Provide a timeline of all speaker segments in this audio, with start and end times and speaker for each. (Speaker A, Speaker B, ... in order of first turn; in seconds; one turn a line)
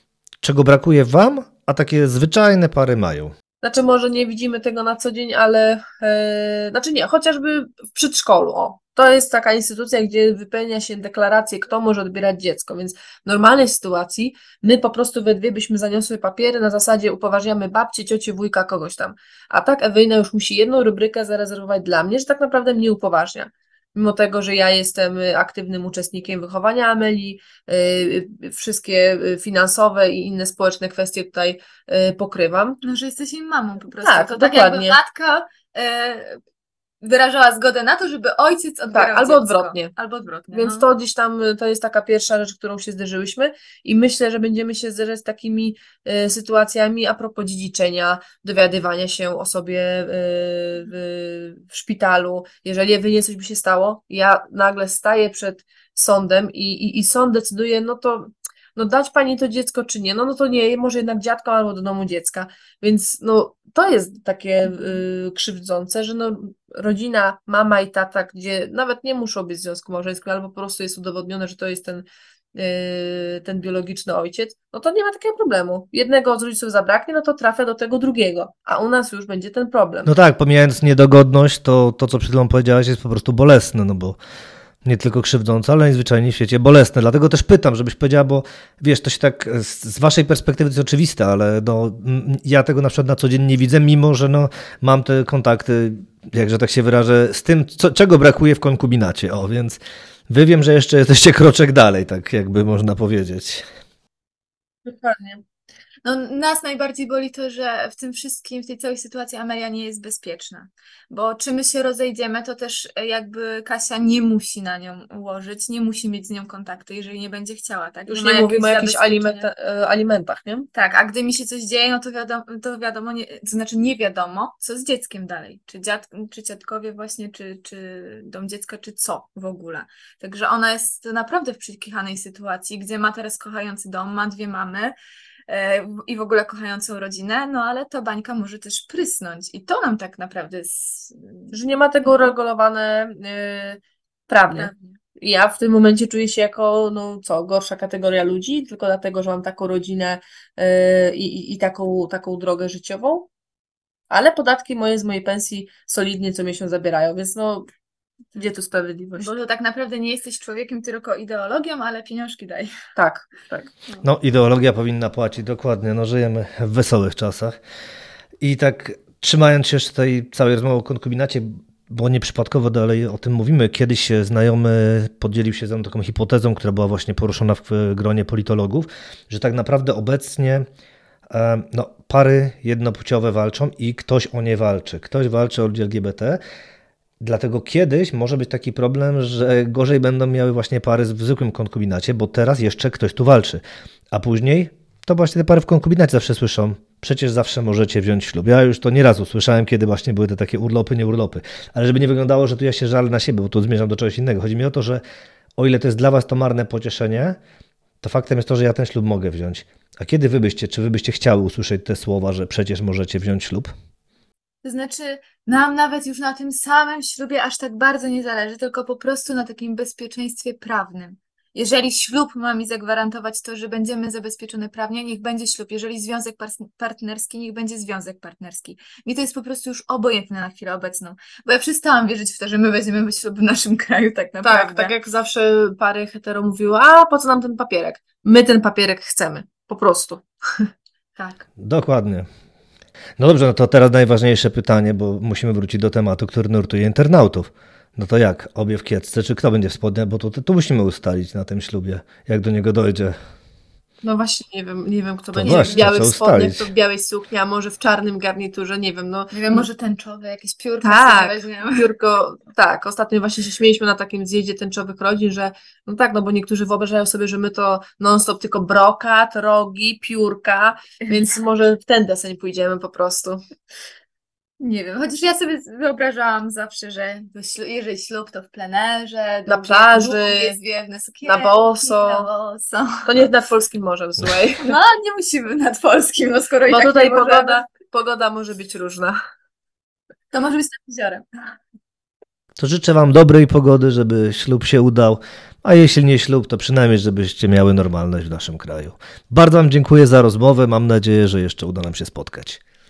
Speaker A: 0.4-3.3
Speaker B: 3.6-32.8
Speaker C: 32.8-36.4
Speaker B: 34.0-35.0
Speaker C: 37.0-40.9
Speaker B: 38.9-39.9
Speaker B: 40.5-80.1
Speaker A: 80.1-84.2
Speaker A: 84.8-103.7
Speaker B: 104.8-105.4
Speaker C: 106.0-119.5
Speaker B: 118.1-120.7
Speaker C: 120.8-134.9
Speaker C: 135.5-141.5
Speaker B: 141.5-153.3
Speaker C: 144.5-144.8
Speaker B: 154.1-157.7
Speaker B: 158.3-159.3
Speaker C: 159.2-162.7
Speaker B: 163.0-163.7
Speaker A: 164.0-167.6
Speaker A: 168.4-180.7
Speaker A: 181.3-186.4
Speaker A: 187.2-205.0
Speaker A: 205.6-207.4
Speaker A: 208.0-213.7
Speaker C: 214.6-234.9
Speaker B: 234.4-240.7
Speaker C: 241.2-241.5
Speaker A: 241.6-242.3
Speaker A: 243.2-253.2
Speaker B: 254.0-259.7
Speaker A: 255.3-256.7
Speaker C: 259.3-261.9
Speaker B: 260.8-273.4
Speaker C: 274.6-283.1
Speaker B: 279.5-280.6
Speaker B: 281.2-282.3
Speaker B: 283.1-284.8
Speaker C: 284.6-287.6
Speaker B: 286.7-289.2
Speaker C: 290.3-291.3
Speaker A: 292.6-302.6